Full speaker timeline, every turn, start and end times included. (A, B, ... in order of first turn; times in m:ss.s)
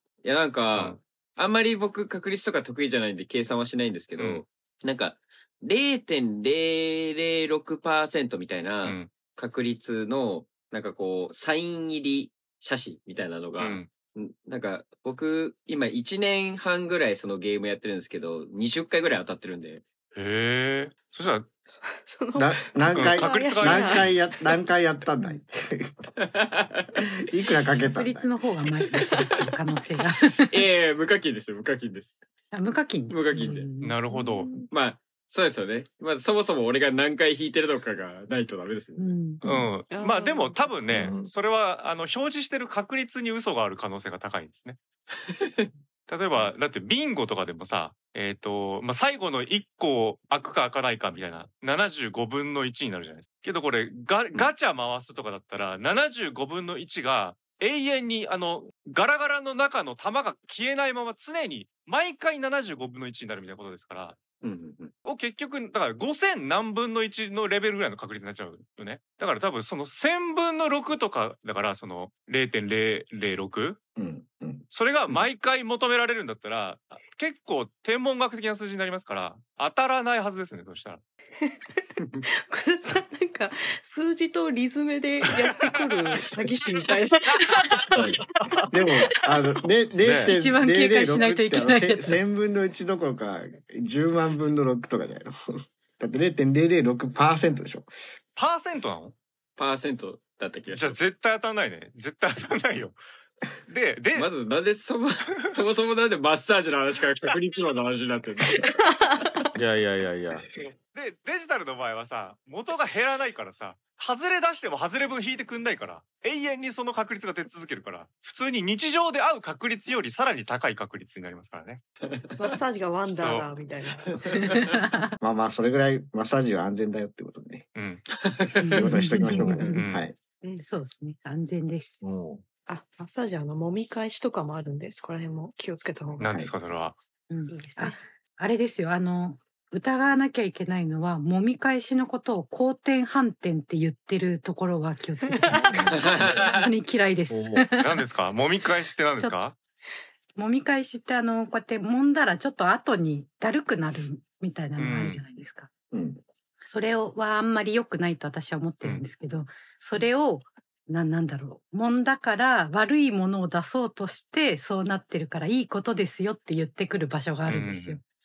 0:00.2-0:19.8 A
0:00.7-0:01.0 B
0:04.2-0:04.5 B
0:08.8-0:09.1 B
0:13.6-0:13.9 B
0:20.2-0:21.5 B
0:21.8-0:24.1 C
0:22.4-0:26.1 D
0:22.9-0:24.2 B
0:26.3-0:27.0 A
0:27.3-0:28.3 D
0:28.0-0:30.6 E
0:28.8-0:29.5 A
0:30.5-0:32.2 A
0:32.5-0:34.0 E
0:33.1-0:33.7 A
0:33.8-0:34.6 B
0:34.1-0:34.7 C
0:34.6-0:39.1 A
0:39.0-0:39.4 E
0:39.4-0:39.7 F
0:39.4-0:44.8 B
0:39.9-0:40.7 C
0:40.9-0:41.3 F
0:45.4-0:45.7 A
0:46.1-1:04.2 B
1:04.4-1:04.9 A
1:05.0-1:13.8 B
1:14.0-1:14.7 D
1:14.7-1:21.0 B
1:21.4-1:21.8 C
1:22.5-1:28.2 C
1:28.0-1:28.2 F
1:28.7-1:35.4 D
1:30.0-1:30.4 F
1:30.3-1:32.2 E
1:36.0-1:37.9 D
1:38.4-1:39.2 B
1:39.6-1:41.0 A
1:40.7-1:43.0 B
1:43.7-1:44.3 B
1:44.2-1:48.6 A
1:49.6-1:50.5 F
1:50.5-2:01.8 B
2:02.1-2:02.4 A
2:02.4-2:04.6 C
2:03.2-2:03.5 B
2:04.1-2:04.9 A
2:04.4-2:05.1 E
2:05.2-2:07.7 D
2:07.8-2:08.0 B
2:08.2-2:08.9 A
2:08.6-2:09.9 E
2:08.7-2:10.2 D
2:09.1-2:09.6 F
2:09.8-2:10.0 B
2:10.4-2:10.7 C
2:10.6-2:12.0 E
2:12.0-2:12.4 F
2:12.7-2:16.3 C
2:16.2-2:17.0 B
2:17.3-2:28.0 E
2:17.5-2:18.0 C
2:25.5-2:26.1 D
2:25.9-2:26.6 A
2:27.3-2:27.7 F
2:27.8-2:29.6 B
2:30.4-2:35.7 E
2:34.8-2:35.2 B
2:35.9-2:36.2 D
2:36.6-2:48.0 E
2:47.5-2:48.0 B